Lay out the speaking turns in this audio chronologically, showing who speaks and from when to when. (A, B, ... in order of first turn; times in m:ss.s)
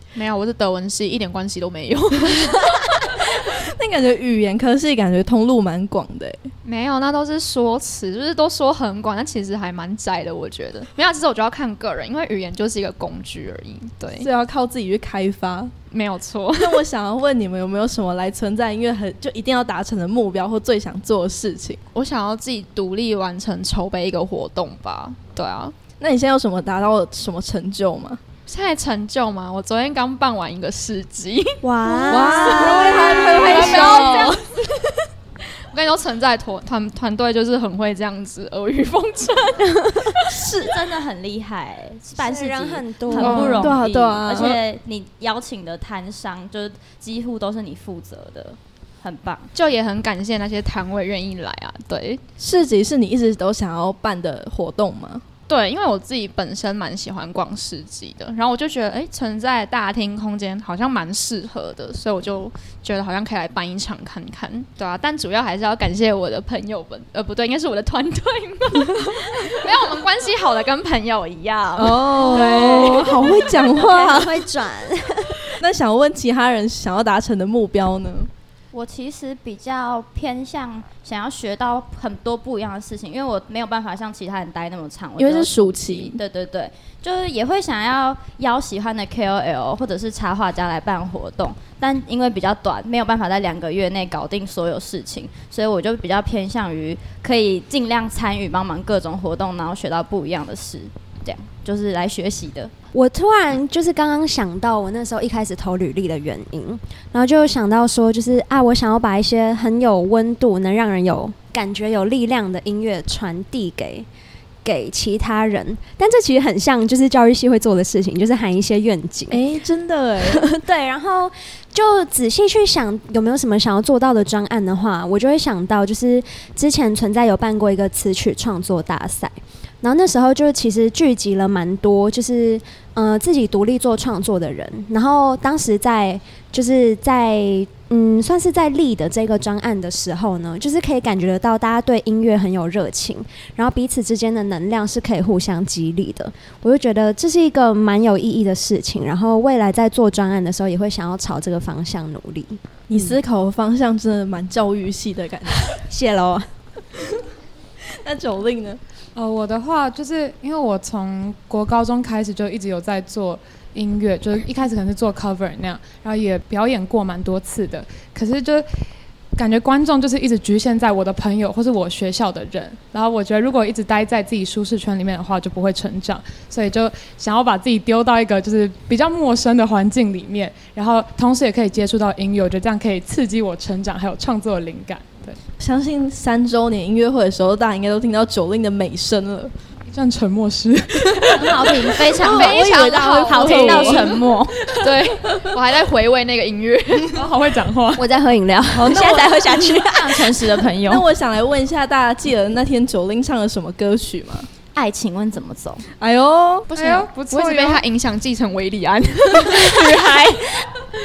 0:00.1-0:02.9 A
0:02.3-0:06.4 B
0:06.6-0:14.3 A
0:14.2-0:15.7 B
0:15.9-0:16.8 A
0:16.6-0:21.8 B
0:21.9-0:25.7 A
0:26.0-0:28.2 B
0:28.5-0:34.8 A
0:31.6-0:34.4 C
0:32.1-0:34.4 B
0:35.7-0:40.2 A
0:40.2-0:49.5 D
0:42.1-0:43.6 C
0:43.2-0:44.6 B
0:43.2-0:43.7 A
0:49.5-0:52.2 A
0:52.4-0:55.2 B
0:55.5-1:13.3 A
1:11.8-1:14.4 B
1:12.2-1:15.4 C
1:15.6-1:18.3 B
1:18.7-1:42.7 D
1:25.2-1:26.2 B
1:42.9-1:54.1 C
1:54.6-1:59.4 C
1:59.3-2:00.5 B
2:00.2-2:33.2 C
2:32.9-2:35.8 B
2:35.7-2:36.5 C
2:37.9-2:38.8 B
2:39.2-2:48.6 E
2:49.4-3:05.4 E
3:05.6-3:09.5 B
3:09.9-3:11.9 E
3:11.1-3:14.2 B
3:11.4-3:12.9 C
3:12.1-3:14.2 A
3:12.3-3:14.6 D
3:14.8-3:17.1 A
3:17.1-3:18.1 E
3:18.0-3:20.5 C
3:18.7-3:21.0 D
3:18.8-3:19.3 B
3:20.8-3:24.5 B
3:24.7-3:25.8 D
3:26.0-3:26.7 B
3:26.7-3:27.8 E
3:26.7-3:30.7 A